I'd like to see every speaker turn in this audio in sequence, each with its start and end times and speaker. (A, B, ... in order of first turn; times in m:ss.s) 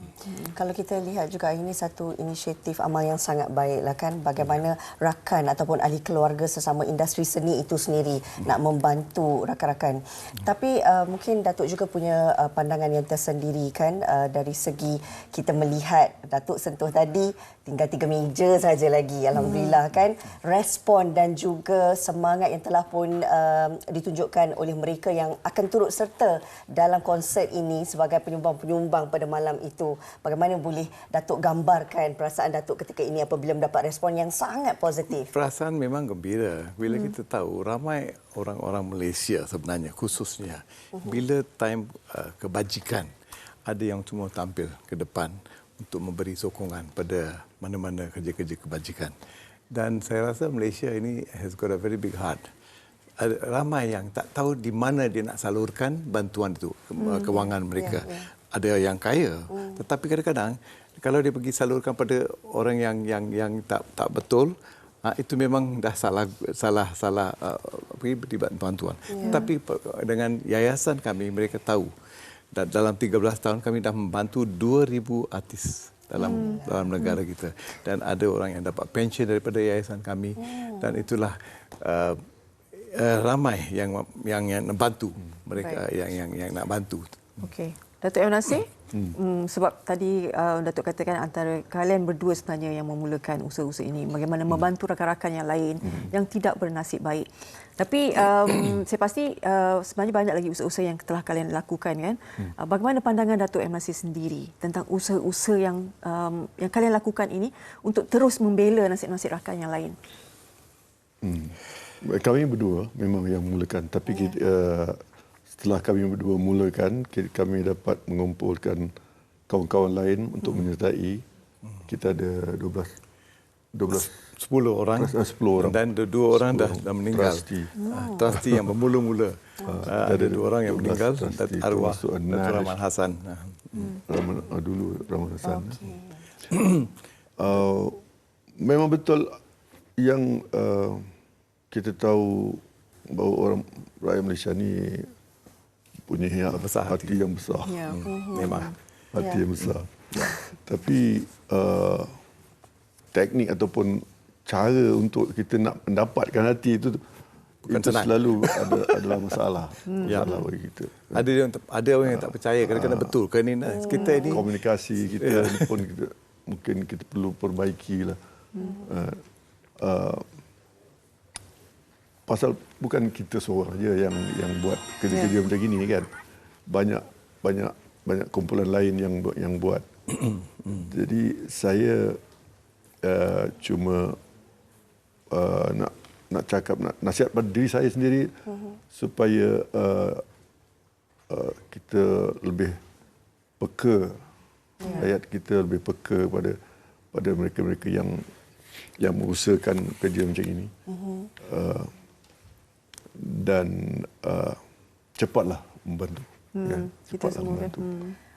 0:00.2-0:00.5 A
0:00.4-0:35.3 B
0:19.4-0:19.8 A
0:35.3-0:43.1 C
0:41.0-0:41.2 B
0:43.7-0:49.1 C
0:49.7-0:52.4 C
0:53.2-1:11.9 C
0:57.0-0:57.5 A
0:57.8-0:58.2 B
0:59.5-0:59.8 B
1:09.1-1:09.5 B
1:09.2-1:09.5 A
1:12.5-1:22.2 C
1:16.2-1:16.7 A
1:16.2-1:16.9 B
1:20.4-1:21.0 B
1:22.7-1:27.4 C
1:25.6-1:25.8 A
1:27.4-1:50.0 A
1:51.2-1:58.9 D
1:59.5-2:01.2 D
2:01.9-2:03.0 D
2:03.7-2:04.2 D
2:03.9-2:13.8 C
2:05.0-2:08.6 D
2:07.8-2:08.2 A
2:09.6-2:12.8 D
2:13.8-2:15.8 D
2:15.8-2:16.1 B
2:16.5-2:16.9 C
2:17.4-2:18.0 D
2:18.6-2:19.4 D
2:20.0-2:21.1 D
2:21.7-2:25.1 D
2:26.1-2:27.9 D
2:26.5-2:27.2 C
2:27.7-2:28.7 A
2:27.9-2:28.8 C
2:28.0-2:28.6 B
2:29.1-2:32.2 D
2:29.6-2:30.4 C
2:33.1-2:37.0 D
2:37.7-2:39.4 C
2:37.7-2:41.3 D
2:39.9-2:40.4 A
2:40.0-2:40.3 C
2:41.1-2:44.5 C
2:42.0-2:43.2 D
2:43.8-2:44.3 B
2:43.9-2:44.4 A
2:44.2-2:48.2 D
2:45.2-2:45.8 C
2:48.6-2:48.8 A
2:48.8-2:49.2 D
2:49.8-2:50.3 D
2:52.3-2:59.9 D
3:00.7-3:02.2 D
3:03.0-3:04.2 D
3:05.3-3:08.4 D
3:08.9-3:10.2 D
3:11.3-3:12.8 D
3:13.6-3:14.3 D
3:14.8-3:15.1 A
3:14.8-3:16.6 D
3:17.1-3:18.3 D
3:19.0-3:20.7 D
3:20.9-3:21.3 B
3:21.4-3:21.9 D
3:23.2-3:24.6 D
3:25.2-3:27.9 D
3:26.6-3:28.2 A